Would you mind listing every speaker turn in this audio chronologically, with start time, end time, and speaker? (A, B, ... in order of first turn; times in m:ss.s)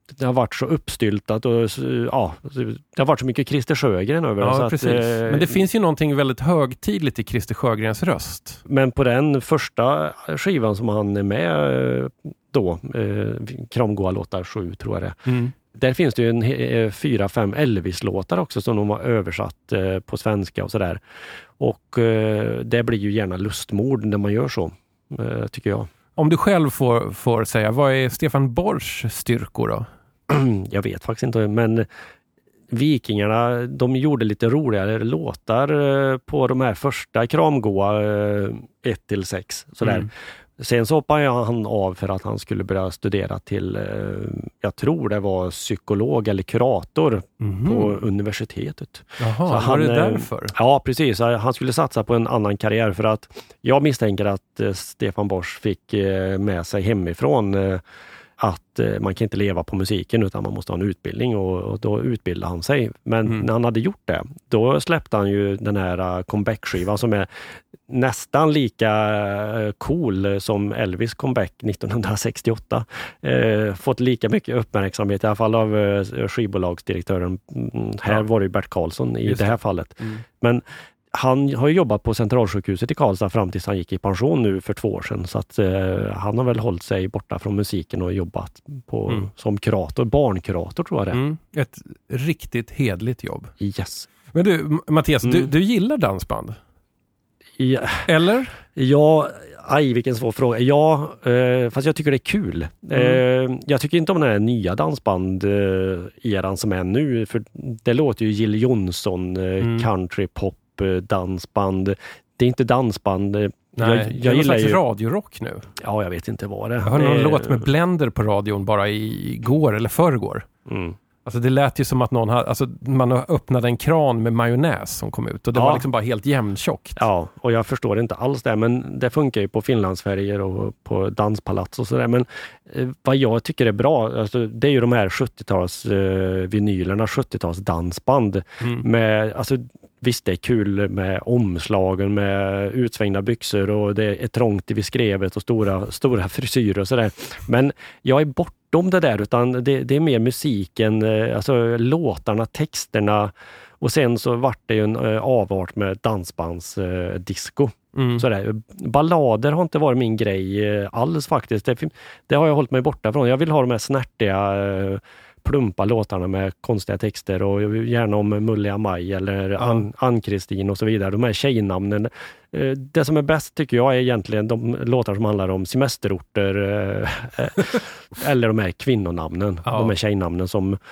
0:00.2-0:05.6 A
0:04.4-0:08.6 B
0:08.6-0:15.2 A
0:15.2-0:15.5 B
0:15.7-0:21.0 A
0:21.6-0:25.9 A
0:26.2-0:29.9 B
0:30.3-0:31.9 A
0:32.7-0:57.8 A
0:39.8-0:40.1 B
0:47.4-0:48.0 B
0:49.2-0:50.5 B
0:58.4-1:07.3 A
1:07.9-1:31.2 A
1:19.2-1:20.2 B
1:31.1-1:33.5 B
1:33.6-1:34.1 A
1:34.3-1:36.6 B
1:35.2-1:35.5 A
1:37.6-1:38.0 A
1:38.0-1:38.5 B
1:38.7-1:54.8 A
1:42.9-1:43.2 B
1:49.6-1:49.9 B
1:53.8-1:55.7 B
1:55.8-1:57.7 A
1:56.8-2:00.5 B
2:00.7-2:01.0 A
2:01.2-2:07.0 B
2:05.5-2:05.8 A
2:07.0-3:00.8 A
2:18.6-2:18.8 B
2:38.0-2:38.2 B
2:49.6-2:49.8 B
2:59.7-2:59.9 B